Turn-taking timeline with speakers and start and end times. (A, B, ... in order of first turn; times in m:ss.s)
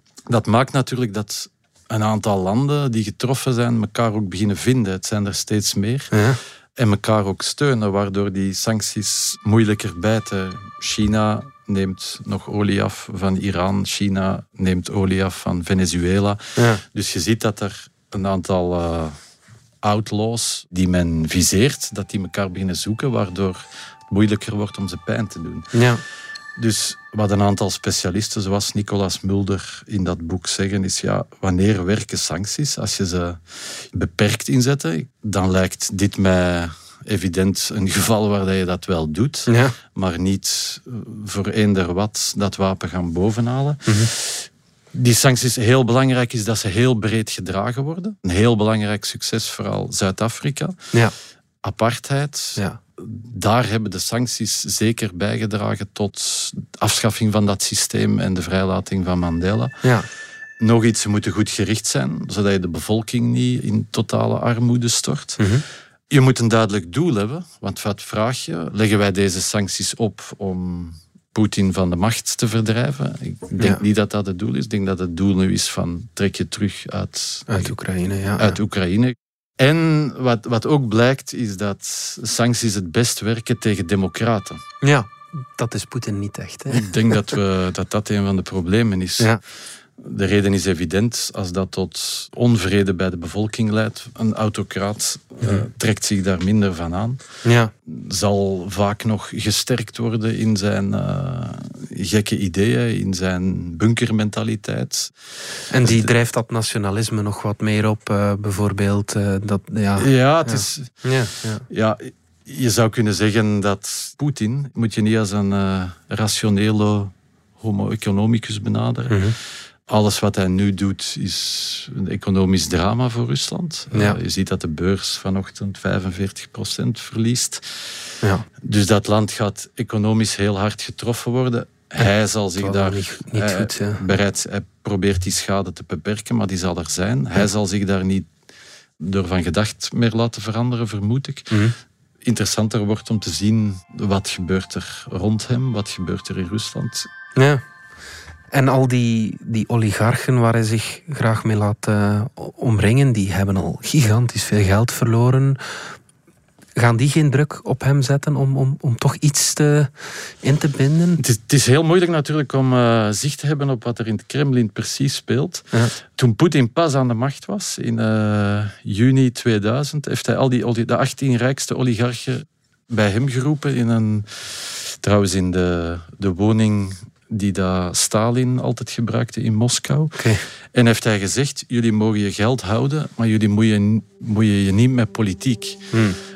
0:00.3-0:06.1 A
0:06.1-0:06.4 B
0:06.8-0:19.2 A
0:16.6-0:16.8 B
0:19.8-0:25.7 A
0:25.7-0:26.0 B
0:26.6-0:50.8 A
0:39.5-0:39.8 B
0:51.6-0:59.7 A
1:00.6-1:05.4 A
1:05.4-1:05.6 B
1:06.1-1:17.7 A
1:17.5-1:18.5 B
1:18.4-1:24.6 A
1:24.8-1:27.2 B
1:26.7-1:29.4 A
1:30.0-1:37.2 A
1:37.4-1:37.7 B
1:37.8-1:45.1 A
1:45.7-1:51.6 B
1:45.8-1:46.1 A
1:50.0-1:51.1 A
1:51.7-1:59.3 A
1:59.1-1:59.4 B
1:59.9-2:07.8 A
2:03.9-2:04.2 B
2:08.6-2:18.3 A
2:12.0-2:14.0 B
2:19.0-2:21.6 A
2:22.2-2:27.1 A
2:27.4-2:27.6 B
2:28.5-2:35.9 B
2:36.8-2:41.2 B
2:41.2-3:00.2 A
3:00.2-3:00.4 B
3:00.7-3:05.8 A
3:05.9-3:06.2 B